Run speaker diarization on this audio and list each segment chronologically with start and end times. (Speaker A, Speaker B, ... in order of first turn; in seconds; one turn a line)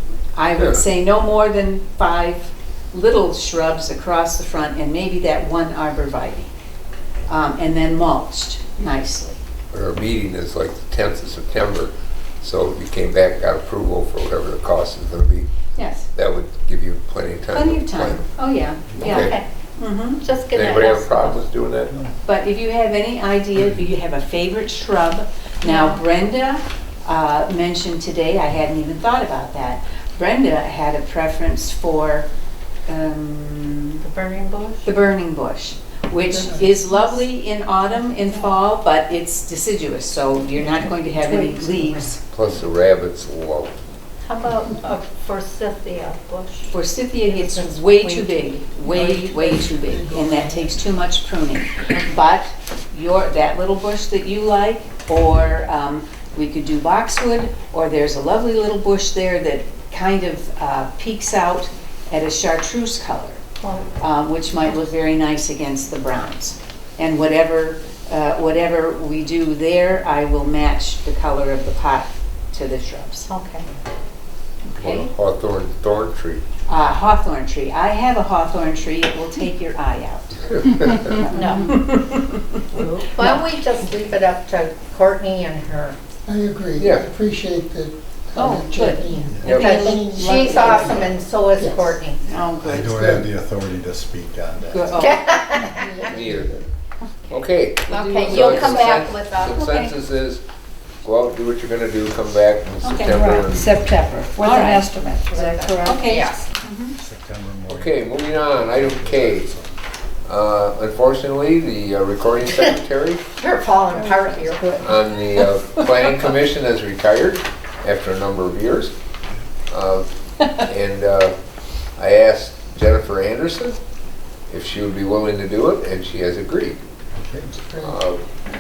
Speaker A: 0.4-6.5
Speaker B: 0.6-0.8
Speaker A: 7.3-9.4
Speaker B: 9.7-15.6
Speaker A: 15.8-16.1
Speaker B: 16.1-18.3
Speaker A: 17.5-20.2
Speaker B: 19.0-19.4
Speaker C: 19.0-19.4
Speaker C: 20.2-21.4
Speaker B: 20.5-22.0
Speaker A: 22.2-32.3
Speaker C: 25.6-26.0
Speaker A: 32.9-34.0
Speaker C: 34.0-34.9
Speaker A: 34.9-42.2
Speaker D: 36.2-37.2
Speaker E: 40.6-42.1
Speaker B: 42.3-43.8
Speaker C: 44.2-46.7
Speaker A: 46.7-63.4
Speaker C: 47.2-48.6
Speaker D: 48.8-50.8
Speaker C: 63.6-63.9
Speaker A: 64.0-73.3
Speaker C: 73.3-73.7
Speaker A: 74.7-75.1
Speaker B: 74.8-76.4
Speaker A: 76.7-83.5
Speaker E: 81.3-81.7
Speaker C: 81.3-81.8
Speaker C: 82.8-86.0
Speaker D: 86.2-92.0
Speaker B: 86.8-87.1
Speaker A: 88.3-91.1
Speaker C: 89.4-92.2
Speaker A: 92.2-93.1
Speaker F: 92.6-95.1
Speaker D: 92.9-93.3
Speaker A: 94.7-95.4
Speaker C: 95.0-95.9
Speaker D: 95.6-96.7
Speaker B: 96.1-96.5
Speaker B: 97.3-100.4
Speaker C: 97.9-99.7
Speaker A: 99.6-99.9
Speaker B: 101.0-103.8
Speaker A: 102.8-103.2
Speaker E: 103.1-106.3
Speaker A: 104.4-104.9
Speaker C: 105.3-106.4
Speaker A: 105.8-107.0
Speaker F: 107.0-109.8
Speaker B: 107.7-109.5
Speaker B: 110.3-113.2
Speaker C: 113.4-114.9
Speaker E: 113.9-115.4
Speaker B: 114.8-118.9
Speaker B: 119.7-121.4
Speaker B: 122.0-123.8
Speaker B: 124.5-126.8
Speaker F: 127.2-127.6
Speaker D: 127.6-128.0
Speaker B: 127.8-128.2